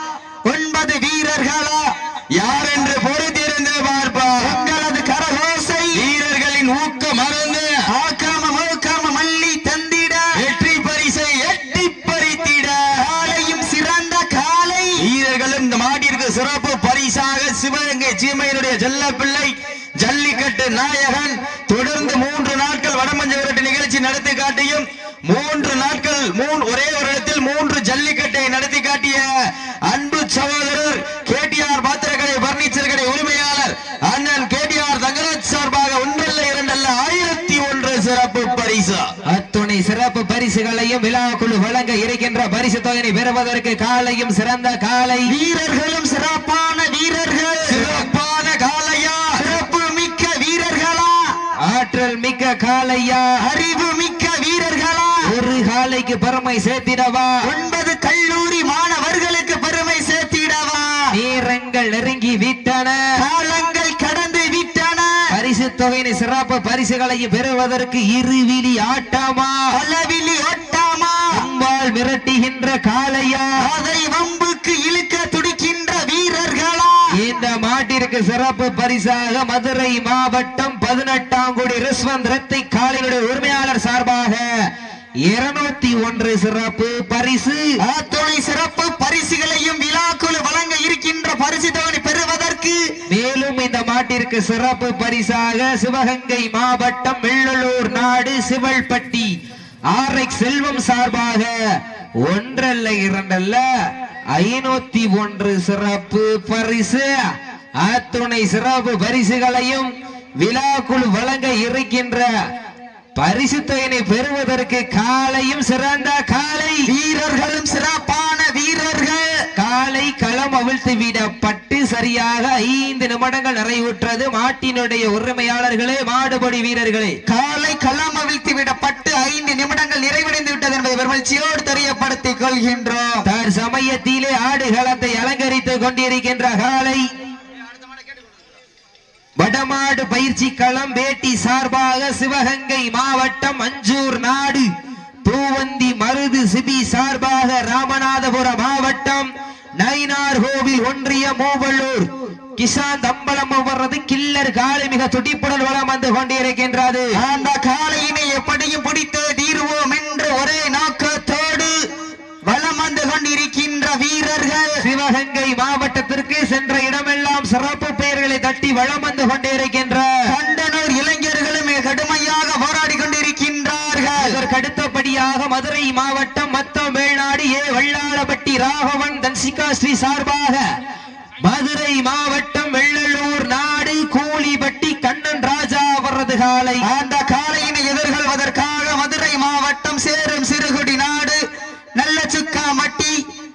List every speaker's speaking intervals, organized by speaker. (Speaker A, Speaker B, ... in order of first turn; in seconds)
Speaker A: 0.5-1.8, 4.4-6.0, 7.9-10.2, 12.9-15.0, 45.2-48.0, 49.3-51.3, 53.4-55.2, 57.4-61.0, 63.2-65.1, 69.7-71.2, 73.6-77.0, 87.8-92.8, 116.8-119.3, 127.2-133.2, 157.2-161.8, 162.4-164.8, 170.2-174.4, 186.8-191.4, 191.9-193.2
Speaker B: 2.4-4.6, 5.9-7.7, 10.4-13.0, 15.0-29.3, 29.9-39.0, 47.7-49.5
Speaker C: 39.2-45.3, 51.6-53.4, 55.2-57.3, 61.1-63.0, 65.3-69.6, 71.3-73.6, 77.1-84.5, 85.3-87.6, 93.1-99.3, 99.9-101.6, 102.2-103.6, 104.3-107.1, 107.8-112.3, 113.2-116.9, 119.5-127.2, 133.2-137.0, 139.4-144.7, 145.2-157.2, 164.8-170.2, 174.2-180.6, 181.4-186.8